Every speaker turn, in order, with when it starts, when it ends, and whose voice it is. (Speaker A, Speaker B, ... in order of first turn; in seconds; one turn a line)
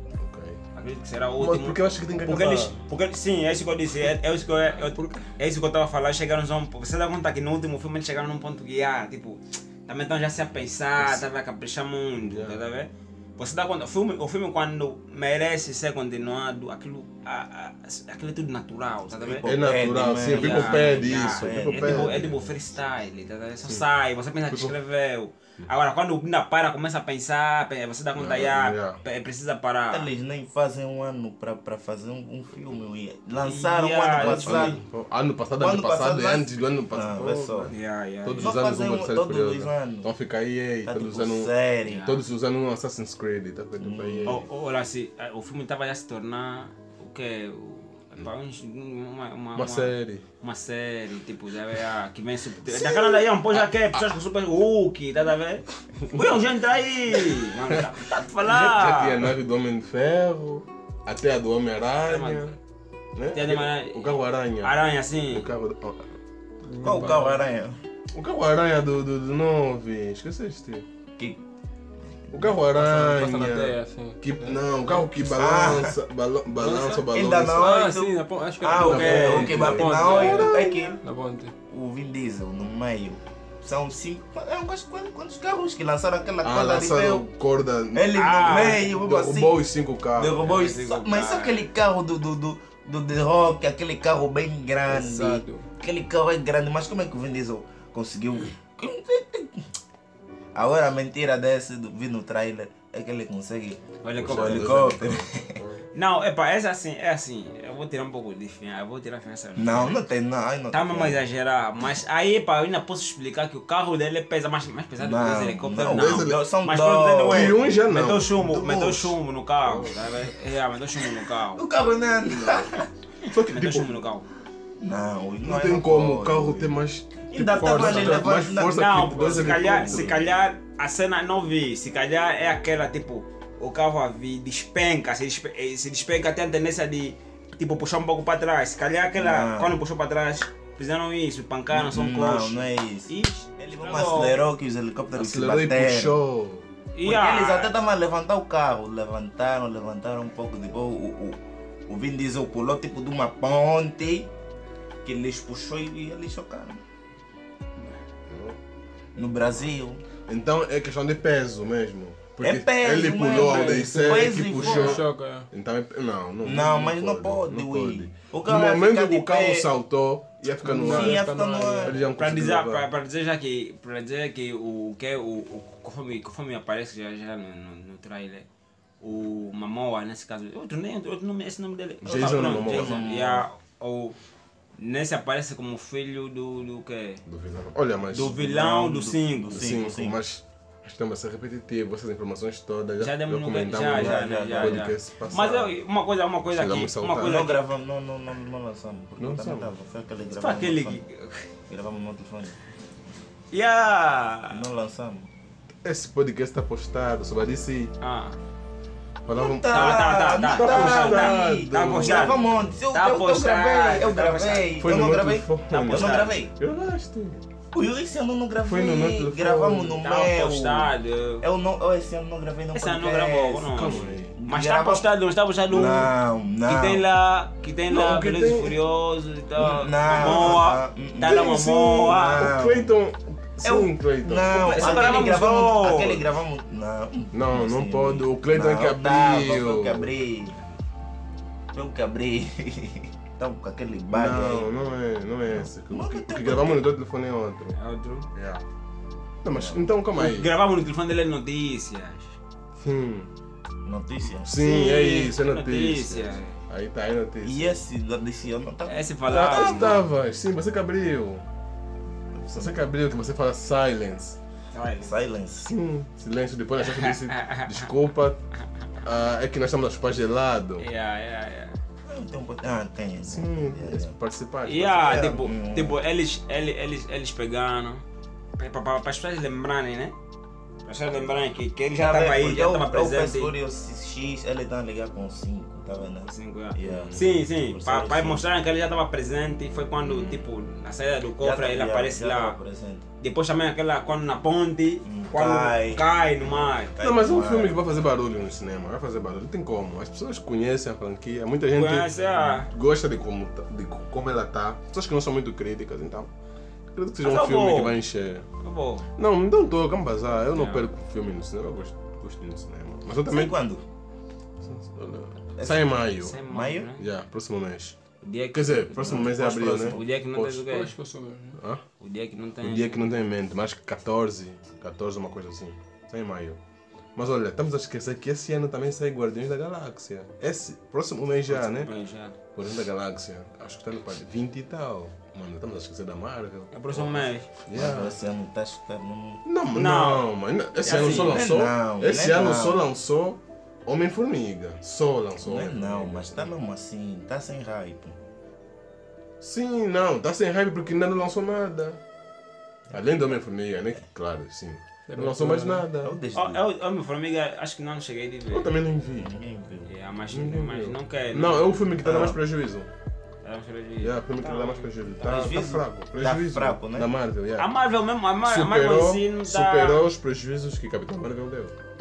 Speaker A: 0.2-0.6
Speaker B: 0.7-19.5
Speaker A: 1.4-2.8
Speaker C: 4.8-5.2
Speaker A: 11.0-11.2
Speaker A: 12.2-12.6
Speaker D: 19.2-22.3
Speaker A: 19.4-22.6
Speaker B: 20.2-30.1
Speaker A: 24.5-24.7
Speaker A: 28.1-29.0
Speaker D: 29.9-34.8
Speaker B: 33.4-34.8
Speaker A: 34.2-44.5
Speaker D: 35.6-37.7
Speaker B: 37.7-38.5
Speaker D: 38.4-40.1
Speaker D: 40.8-42.1
Speaker B: 41.8-42.2
Speaker D: 43.8-44.4
Speaker B: 44.2-59.3
Speaker A: 49.5-50.2
Speaker A: 52.6-54.1
Speaker A: 56.1-56.4
Speaker A: 57.3-57.9
Speaker A: 58.4-62.5
Speaker B: 62.0-62.5
Speaker A: 63.1-64.7
Speaker B: 63.3-65.5
Speaker A: 65.3-66.0
Speaker C: 66.7-67.4
Speaker D: 66.8-67.8
Speaker A: 68.1-70.8
Speaker A: 72.3-77.8
Speaker C: 72.7-74.5
Speaker D: 75.2-76.0
Speaker C: 76.6-81.5
Speaker D: 77.0-81.0
Speaker B: 78.8-79.6
Speaker A: 78.8-80.8
Speaker D: 81.7-87.2
Speaker A: 86.4-90.4
Speaker D: 87.9-89.6
Speaker B: 88.1-88.9
Speaker D: 90.1-99.7
Speaker B: 90.2-91.7
Speaker C: 94.9-95.7
Speaker D: 100.5-105.5
Speaker B: 104.0-104.9
Speaker A: 104.1-105.8
Speaker B: 105.9-110.0
Speaker D: 109.5-111.2
Speaker B: 110.7-121.6
Speaker D: 115.0-117.6
Speaker A: 115.8-116.4
Speaker A: 117.3-119.1
Speaker A: 119.6-120.0
Speaker D: 121.5-122.9
Speaker A: 122.2-124.0
Speaker B: 123.3-124.2
Speaker D: 124.8-126.7
Speaker A: 125.4-130.2
Speaker D: 127.3-130.2
Speaker B: 127.8-144.4
Speaker D: 139.2-139.8
Speaker D: 141.7-146.1
Speaker A: 145.1-146.7
Speaker B: 146.9-147.8
Speaker D: 147.0-154.3
Speaker D: 155.0-156.8
Speaker A: 158.3-158.6
Speaker D: 159.1-160.0
Speaker A: 160.3-171.3
Speaker D: 162.4-165.0
Speaker C: 163.3-165.5
Speaker D: 166.4-169.7
Speaker C: 170.6-172.0
Speaker D: 170.8-172.0
Speaker A: 171.8-172.9
Speaker B: 172.2-178.5
Speaker B: 179.0-184.2
Speaker A: 182.0-183.0
Speaker D: 182.1-183.5
Speaker B: 184.8-187.2
Speaker A: 187.2-188.4
Speaker B: 188.1-189.6
Speaker D: 188.2-190.2
Speaker A: 189.5-195.8
Speaker B: 193.0-197.6
Speaker D: 193.8-194.9
Speaker A: 196.5-197.4
Speaker D: 197.2-201.0
Speaker A: 199.2-199.7
Speaker B: 200.3-201.5
Speaker D: 201.7-202.6
Speaker B: 203.5-204.6
Speaker D: 204.5-205.3
Speaker A: 205.8-207.9
Speaker B: 208.0-208.4
Speaker A: 209.2-212.7
Speaker D: 209.3-216.5
Speaker B: 209.7-212.4
Speaker B: 212.9-214.8
Speaker A: 214.8-217.4
Speaker B: 215.7-216.4
Speaker D: 217.7-225.1
Speaker A: 218.6-220.0
Speaker B: 220.0-221.4
Speaker B: 222.7-226.1
Speaker A: 223.7-224.3
Speaker D: 225.7-227.0
Speaker B: 226.7-232.5
Speaker A: 227.9-228.8
Speaker D: 229.5-232.9
Speaker A: 230.2-230.6
Speaker A: 231.3-235.4
Speaker D: 233.6-240.6
Speaker B: 234.4-236.2
Speaker A: 237.3-240.1
Speaker D: 241.7-244.7
Speaker A: 244.1-247.8
Speaker D: 245.6-246.9
Speaker B: 247.7-248.3
Speaker A: 248.3-248.6
Speaker A: 249.4-250.5
Speaker D: 249.5-249.8
Speaker B: 250.1-252.3
Speaker A: 252.8-253.3
Speaker D: 253.8-254.6
Speaker A: 254.4-257.7
Speaker B: 254.5-256.6
Speaker D: 257.4-260.0
Speaker B: 258.9-260.0
Speaker A: 259.3-261.4
Speaker D: 262.4-262.8
Speaker A: 262.5-264.4
Speaker B: 264.7-265.1
Speaker D: 265.0-265.7
Speaker A: 265.6-268.4
Speaker B: 266.8-267.9
Speaker A: 269.0-270.9
Speaker B: 270.8-271.8
Speaker D: 272.1-274.1
Speaker A: 273.2-275.4
Speaker B: 274.6-278.0
Speaker D: 275.1-276.0
Speaker B: 278.6-280.1
Speaker B: 280.8-283.5
Speaker D: 281.9-288.4
Speaker B: 286.3-292.6
Speaker A: 286.8-287.3
Speaker D: 291.4-293.0
Speaker B: 293.2-296.9
Speaker D: 295.0-296.0
Speaker D: 296.9-297.8
Speaker A: 297.0-302.1
Speaker B: 301.7-302.7
Speaker A: 302.7-306.3
Speaker A: 306.9-308.4
Speaker B: 307.2-308.0
Speaker B: 308.6-309.1
Speaker A: 309.2-313.6
Speaker B: 310.5-310.8
Speaker D: 313.2-313.8
Speaker A: 314.6-316.4
Speaker D: 315.6-316.9
Speaker B: 316.2-317.1
Speaker A: 317.0-318.0
Speaker B: 318.2-320.9
Speaker A: 318.5-320.7
Speaker D: 319.0-320.1
Speaker C: 320.6-321.6
Speaker A: 321.6-321.8
Speaker B: 322.0-323.1
Speaker A: 322.6-326.6
Speaker A: 327.1-331.9
Speaker B: 331.5-332.3
Speaker A: 332.5-338.2
Speaker B: 336.7-337.5
Speaker D: 337.7-339.4
Speaker A: 339.4-346.5
Speaker B: 339.7-340.2
Speaker B: 340.8-341.5
Speaker D: 340.9-342.8
Speaker D: 345.4-348.2
Speaker A: 349.4-352.0
Speaker D: 352.9-353.2
Speaker A: 352.9-356.2
Speaker C: 355.1-355.9
Speaker D: 356.0-356.6
Speaker B: 356.3-358.7
Speaker A: 358.5-359.3
Speaker D: 359.1-359.9
Speaker B: 359.9-361.9
Speaker A: 360.3-362.9
Speaker D: 362.0-362.4
Speaker B: 363.4-365.5
Speaker A: 364.0-367.7
Speaker D: 365.2-367.1
Speaker B: 367.6-370.1
Speaker A: 368.4-371.7